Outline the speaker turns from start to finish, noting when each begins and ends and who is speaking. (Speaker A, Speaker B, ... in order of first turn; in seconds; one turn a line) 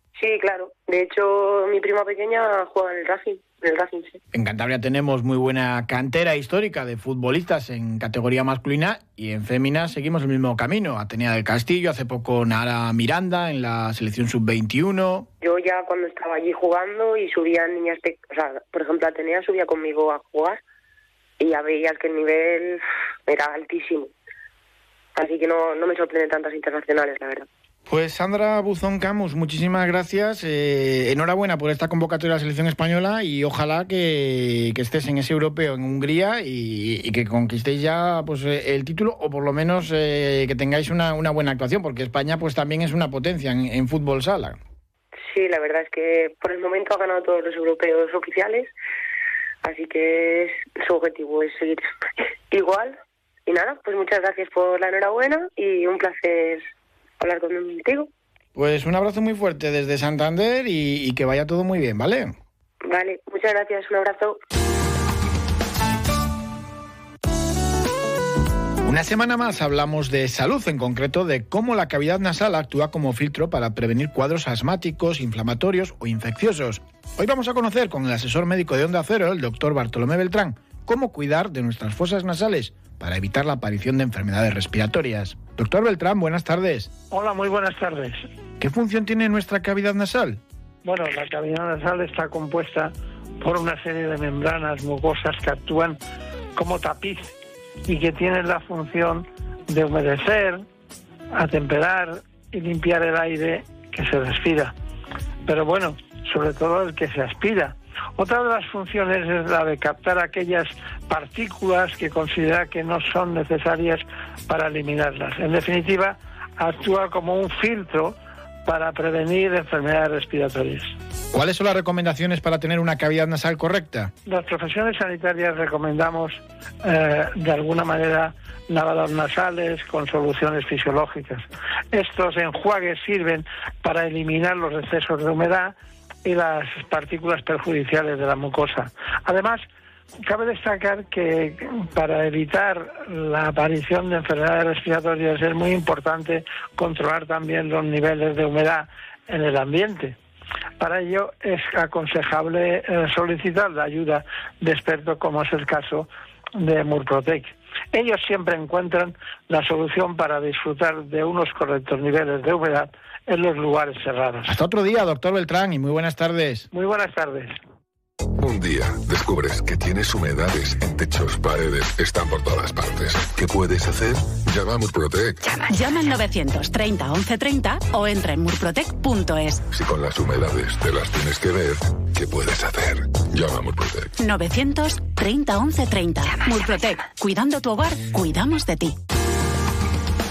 Speaker A: 0.2-4.2
Speaker B: 4.3-15.3
Speaker A: 15.4-20.6
Speaker A: 21.4-24.1
Speaker A: 25.1-27.5
Speaker B: 27.9-44.6
Speaker A: 45.2-48.7
Speaker A: 49.6-51.8
Speaker A: 52.5-56.6
Speaker A: 57.2-58.1
Speaker B: 58.5-62.3
Speaker A: 62.8-64.4
Speaker B: 68.8-86.9
Speaker C: 87.1-88.2
Speaker B: 88.6-90.4
Speaker C: 90.8-96.0
Speaker C: 96.5-97.3
Speaker C: 97.8-100.6
Speaker C: 101.3-104.7
Speaker C: 105.4-120.9
Speaker B: 121.3-124.1
Speaker C: 124.2-139.6
Speaker C: 140.2-150.2
Speaker C: 150.8-164.5
Speaker B: 164.4-166.7
Speaker C: 166.7-167.6
Speaker D: 168.4-175.5
Speaker E: 175.6-179.6
Speaker D: 179.7-184.1
Speaker E: 184.2-188.9